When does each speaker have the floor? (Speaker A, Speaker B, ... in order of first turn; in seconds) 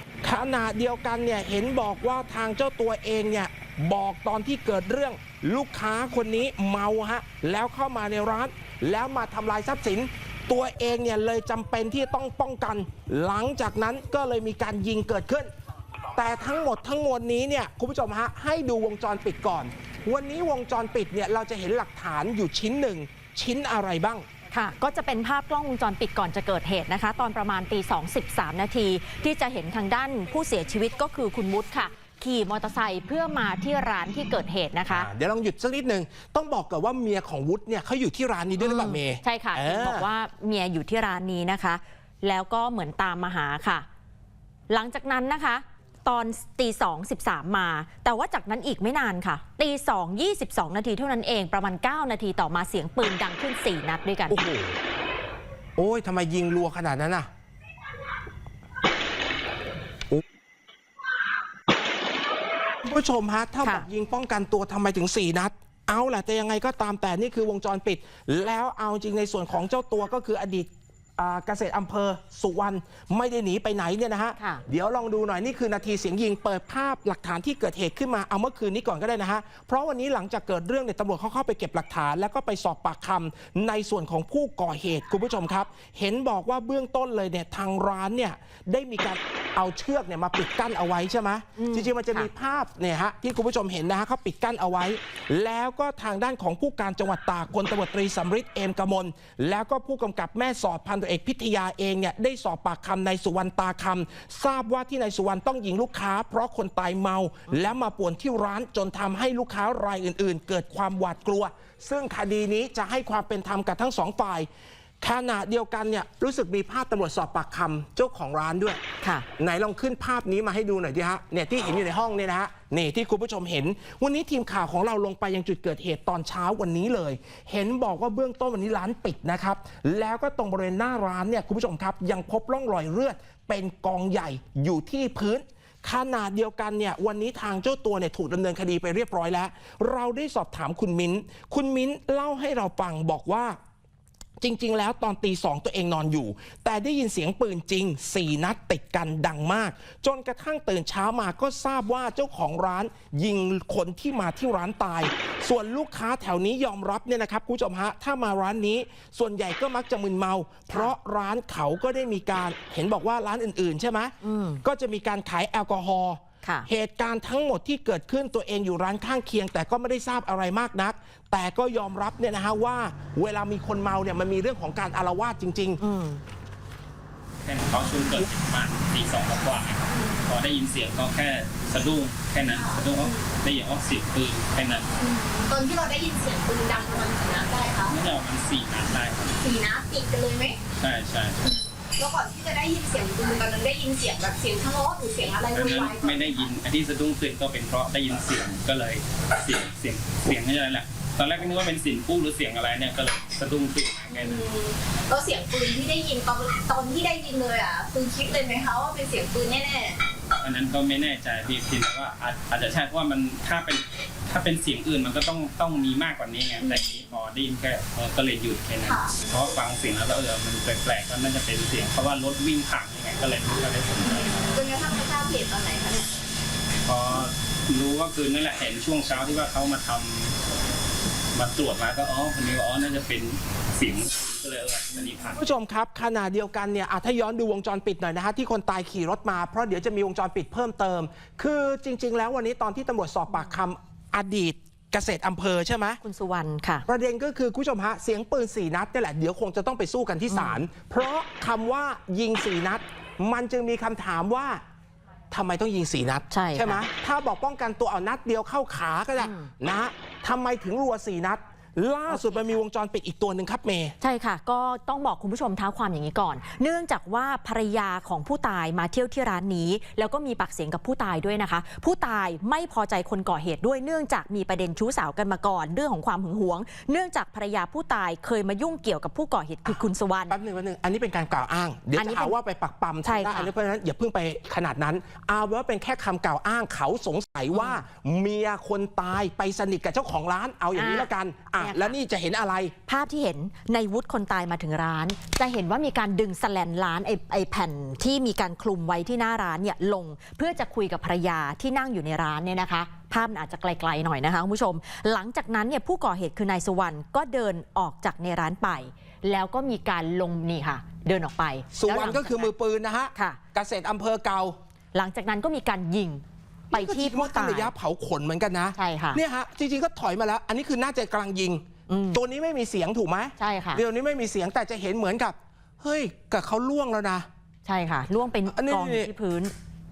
Speaker A: 0.2-15.5, 16.2-24.3, 34.9-40.1, 54.3-54.8, 55.8-57.3, 62.8-114.5, 115.0-118.8, 119.4-143.6, 144.4-175.8, 235.3-246.0, 246.9-254.6, 255.3-263.9, 279.7-292.8, 311.7-314.6, 316.7-327.3, 328.5-329.1
Speaker B: 24.5-35.1, 38.6-43.9, 44.7-54.4, 74.4-74.6, 91.6-92.3, 119.0-119.3, 164.2-164.6, 175.8-176.2, 243.3-243.6, 246.0-246.9, 250.3-250.6, 256.3-256.8, 259.2-259.5, 262.1-262.6, 264.0-280.4, 282.0-282.4, 283.0-283.5, 287.5-287.8, 290.8-292.0, 292.9-312.5, 313.1-313.4, 314.9-317.7, 318.8-319.2, 321.9-322.2, 323.4-323.8, 327.6-329.5
Speaker C: 177.4-184.9, 187.9-189.4, 190.8-191.5, 195.5-204.5, 210.4-224.6, 226.8-230.4, 231.3-235.4
Speaker D: 179.9-180.3, 182.3-183.2, 185.0-187.9, 189.4-190.6, 191.4-196.4, 204.1-210.0, 218.9-219.1, 224.1-226.1